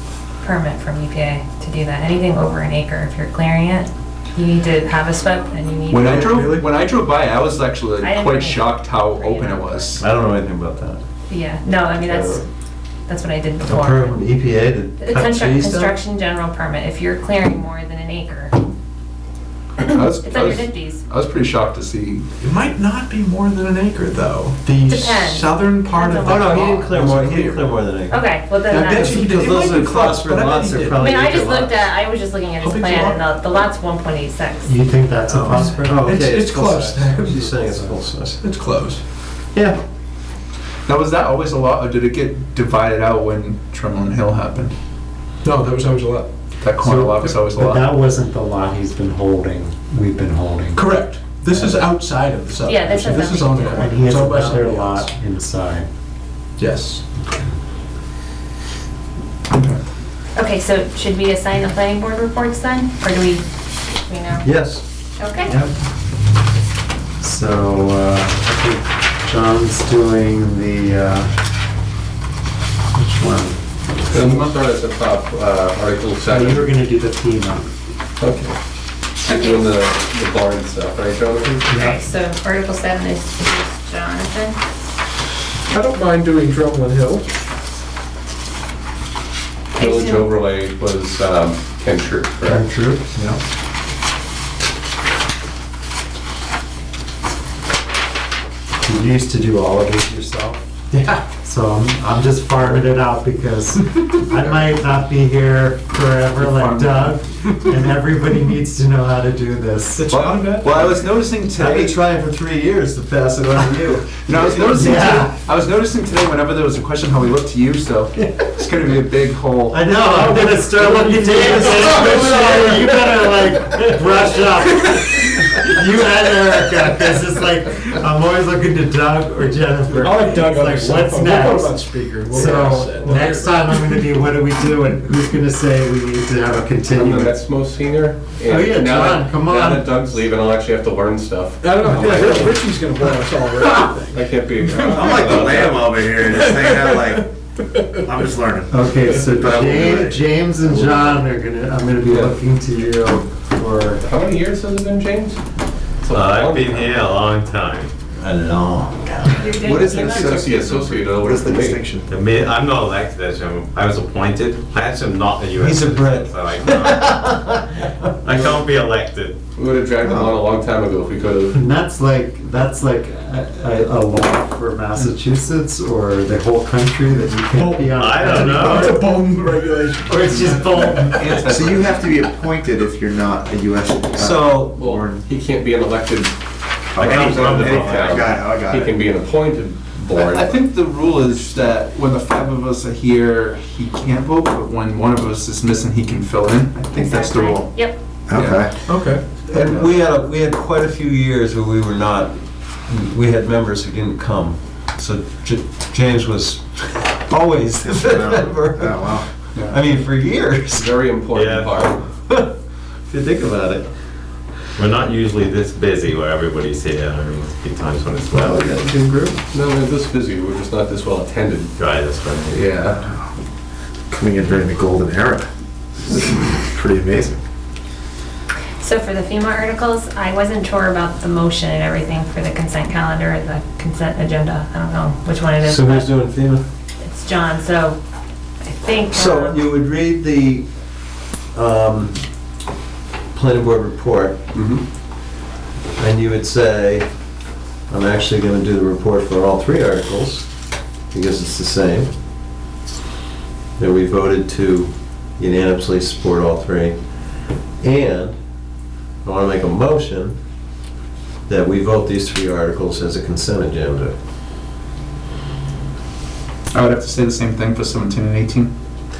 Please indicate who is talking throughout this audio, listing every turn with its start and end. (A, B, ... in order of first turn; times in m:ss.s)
0:00.4-0:06.6 A
0:05.9-0:06.6 B
0:05.9-0:09.8 C
0:08.0-0:10.0 A
0:10.0-0:11.0 D
0:11.3-0:12.4 A
0:12.0-0:12.4 D
0:13.1-0:14.2 A
0:13.6-0:15.9 D
0:15.0-0:18.6 A
0:19.8-0:21.0 A
0:19.9-0:22.2 C
0:22.4-0:27.9 B
0:24.8-0:26.9 A
0:26.2-0:31.9 D
0:28.1-0:29.2 A
0:28.7-0:31.0 B
0:31.0-0:34.7 A
0:32.6-0:33.6 B
0:34.6-0:36.1 E
0:35.3-0:37.9 B
0:35.5-0:38.4 D
0:38.4-0:39.0 B
0:40.9-0:44.7 C
0:45.4-0:47.8 B
0:46.8-0:50.9 E
0:47.3-0:47.8 C
0:50.7-0:55.1 B
0:51.5-0:51.8 E
0:52.6-0:54.1 A
0:53.8-0:55.8 E
0:56.6-0:57.0 B
0:59.5-0:59.8 B
1:00.4-1:04.4 A
1:04.4-1:04.8 D
1:05.2-1:05.5 A
1:05.4-1:05.7 E
1:07.2-1:11.3 E
1:12.9-1:13.6 E
1:14.1-1:16.7 F
1:16.2-1:17.7 E
1:18.2-1:18.5 F
1:19.2-1:21.8 F
1:19.2-1:19.8 A
1:21.7-1:22.0 E
1:21.7-1:24.6 A
1:25.7-1:27.2 B
1:29.8-1:30.4 A
1:29.8-1:32.6 F
1:32.4-1:33.3 E
1:38.8-1:50.3 E
1:46.5-1:46.9 C
1:50.0-1:51.2 B
1:50.1-1:55.0 D
1:50.6-1:51.9 C
1:54.2-1:59.8 C
1:54.5-1:55.3 B
1:54.8-1:55.3 E
1:58.2-1:58.5 B
1:59.7-2:17.3 E
1:59.8-2:03.0 B
2:09.9-2:14.0 B
2:16.9-2:22.6 F
2:18.4-2:20.1 E
2:21.6-2:25.4 B
2:22.0-2:22.4 G
2:24.1-2:25.9 F
2:24.8-2:27.3 G
2:26.2-2:27.2 B
2:28.0-2:30.2 G
2:28.7-2:34.0 E
2:30.6-2:31.2 F
2:34.0-2:35.4 F
2:36.0-2:37.0 F
2:36.1-2:37.9 H
2:38.2-2:39.7 D
2:39.3-2:40.7 A
2:39.5-2:42.1 G
2:39.8-2:41.8 F
2:42.1-2:47.2 H
2:45.6-2:47.9 D
2:48.2-2:49.4 H
2:48.3-2:48.6 F
2:49.6-2:51.6 F
2:50.0-2:50.4 G
2:51.5-2:59.2 E
2:57.6-3:01.2 B
2:57.8-2:59.0 H
3:00.0-3:01.4 E
3:01.1-3:01.9 C
3:01.4-3:05.2 G
3:04.2-3:04.8 D
3:04.7-3:06.3 F
3:06.9-3:09.0 G
3:07.0-3:10.6 F
3:07.0-3:08.4 H
3:10.2-3:17.6 C
3:17.0-3:18.0 A
3:18.3-3:18.8 G
3:18.8-3:19.2 B
3:19.5-3:22.3 D
3:22.9-3:30.9 D
3:27.9-3:29.3 G
3:30.7-3:32.0 F
3:31.2-3:31.9 H
3:33.0-3:33.9 D
3:34.8-3:38.7 H
3:38.6-3:38.8 B
3:38.9-3:41.7 F
3:41.8-3:42.7 H
3:42.5-3:43.0 F
3:44.1-3:45.5 G
3:46.1-3:47.4 G
3:48.8-3:56.1 A
3:55.6-3:56.6 D
3:57.0-3:58.0 A
3:58.6-3:59.6 A
3:59.1-4:00.7 D
4:01.5-4:02.2 D
4:03.3-4:04.4 D
4:04.5-4:04.8 F
4:06.0-4:07.1 D
4:07.9-4:10.5 D
4:11.1-4:12.1 D
4:13.8-4:17.0 D
4:17.8-4:18.4 D
4:19.2-4:20.4 D
4:21.5-4:24.1 D
4:26.7-4:28.7 C